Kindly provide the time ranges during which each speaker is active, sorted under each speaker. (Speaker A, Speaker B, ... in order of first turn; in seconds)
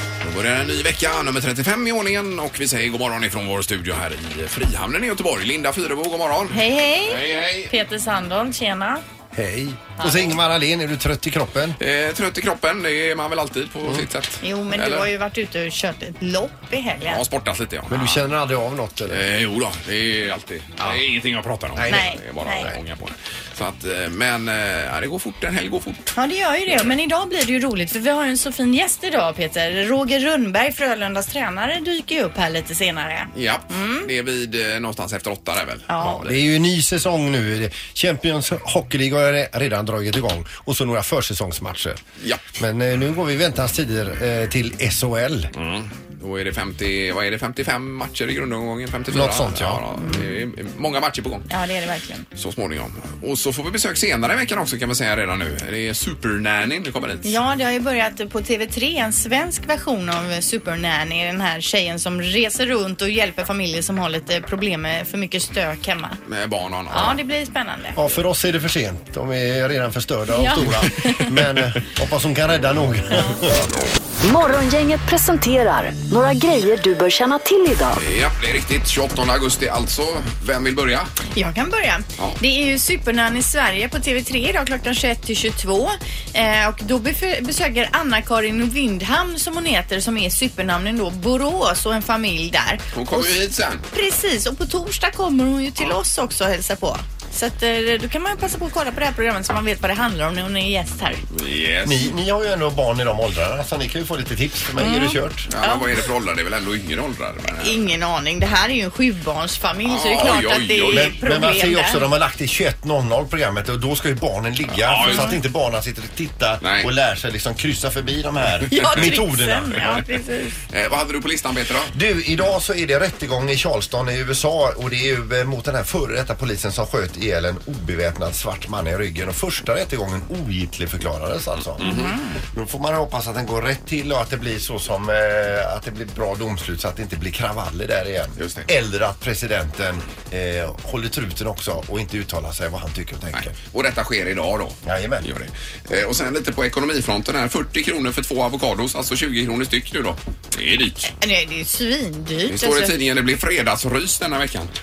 Speaker A: 0.2-7.7, 11.8-15.1, 17.1-18.2, 19.1-26.1, 33.3-36.4, 45.5-51.5, 52.3-57.4, 66.2-67.2, 78.0-81.1, 92.9-93.8, 101.3-102.1, 105.5-107.8, 109.8-111.2, 114.7-115.4, 116.6-116.9, 118.7-119.1, 120.7-121.9, 131.8-132.1, 138.4-138.7, 143.3-151.1, 152.5-154.7
Speaker B: 6.5-9.0, 10.0-10.3, 14.4-17.2, 21.9-22.7, 26.1-34.1, 35.9-36.3, 50.0-50.2, 51.5-52.2, 57.2-66.2, 66.9-68.0, 70.3-71.2, 81.3-101.2, 104.8-105.9, 107.6-112.0, 115.0-115.3, 118.7-120.5, 131.8-132.4, 151.1-152.9
Speaker C: 9.3-11.8, 17.9-19.3, 21.8-22.7, 36.2-42.0, 42.6-45.5, 49.1-49.8, 67.9-73.8, 101.8-105.5, 110.9-120.0, 121.9-132.0, 132.5-143.5, 144.8-145.3
Speaker D: 74.2-78.0